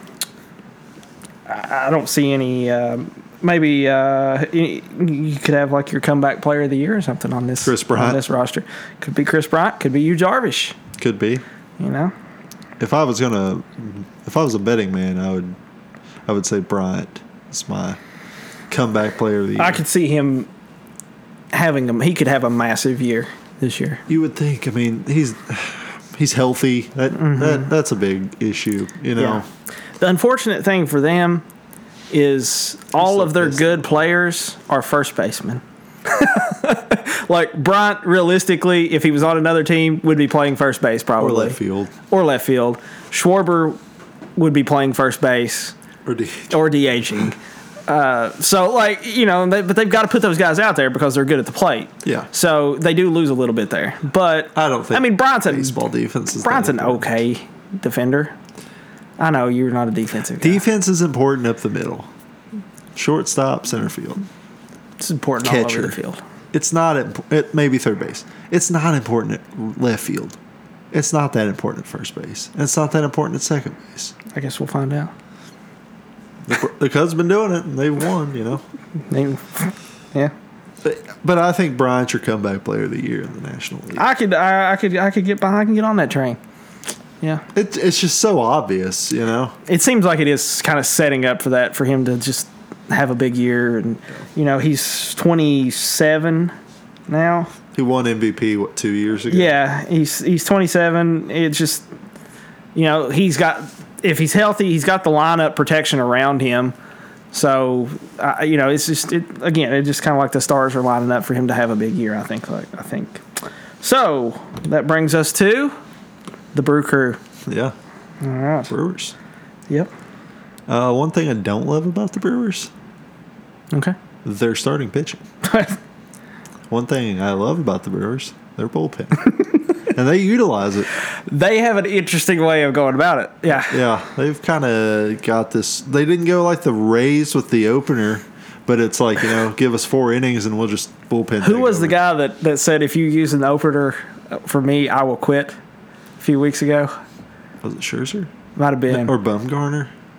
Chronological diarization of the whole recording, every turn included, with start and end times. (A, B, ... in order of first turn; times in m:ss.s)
0:01.5-0:10.8 A
0:07.6-0:08.2 B
0:11.0-0:11.4 B
0:11.8-0:12.1 A
0:12.8-0:15.6 B
0:16.3-0:18.0 B
0:18.7-0:19.8 B
0:19.6-0:20.5 A
0:21.5-0:24.0 A
0:24.1-0:29.5 B
0:27.1-0:27.7 A
0:29.2-0:29.4 A
0:30.0-0:31.4 A
0:32.1-0:41.6 A
0:33.0-0:34.0 B
0:41.2-0:41.9 B
0:42.1-0:43.8 A
0:44.4-0:45.8 A
0:46.1-0:46.6 B
0:46.5-0:55.8 A
0:54.6-0:57.1 B
0:56.4-0:58.4 A
0:59.2-1:00.6 A
1:00.4-1:02.1 B
1:03.0-1:04.3 B
1:05.0-1:06.2 A
1:05.4-1:06.0 B
1:06.5-1:10.4 B
1:10.9-1:14.1 B
1:14.3-1:15.1 A
1:16.5-1:18.6 B
1:19.1-1:20.3 A
1:20.8-1:24.0 B
1:24.0-1:26.4 A
1:27.5-1:29.6 B
1:29.7-1:36.5 A
1:37.1-1:37.5 A
1:37.7-1:39.6 B
1:39.3-1:41.9 A
1:42.8-1:46.8 A
1:47.3-1:53.2 A
1:53.8-1:55.8 A
1:56.5-1:57.2 A
1:57.5-1:57.7 B
1:58.2-1:58.7 A
1:58.7-1:59.2 B
2:00.7-2:02.7 B
2:04.2-2:05.2 B
2:05.4-2:05.8 A
2:06.7-2:09.2 B
2:09.9-2:10.9 B
2:11.1-2:13.8 A
2:13.5-2:22.0 B
2:21.4-2:25.6 A
2:26.2-2:27.0 A
2:27.6-2:28.3 B
2:28.6-2:29.1 A
2:28.9-2:29.9 B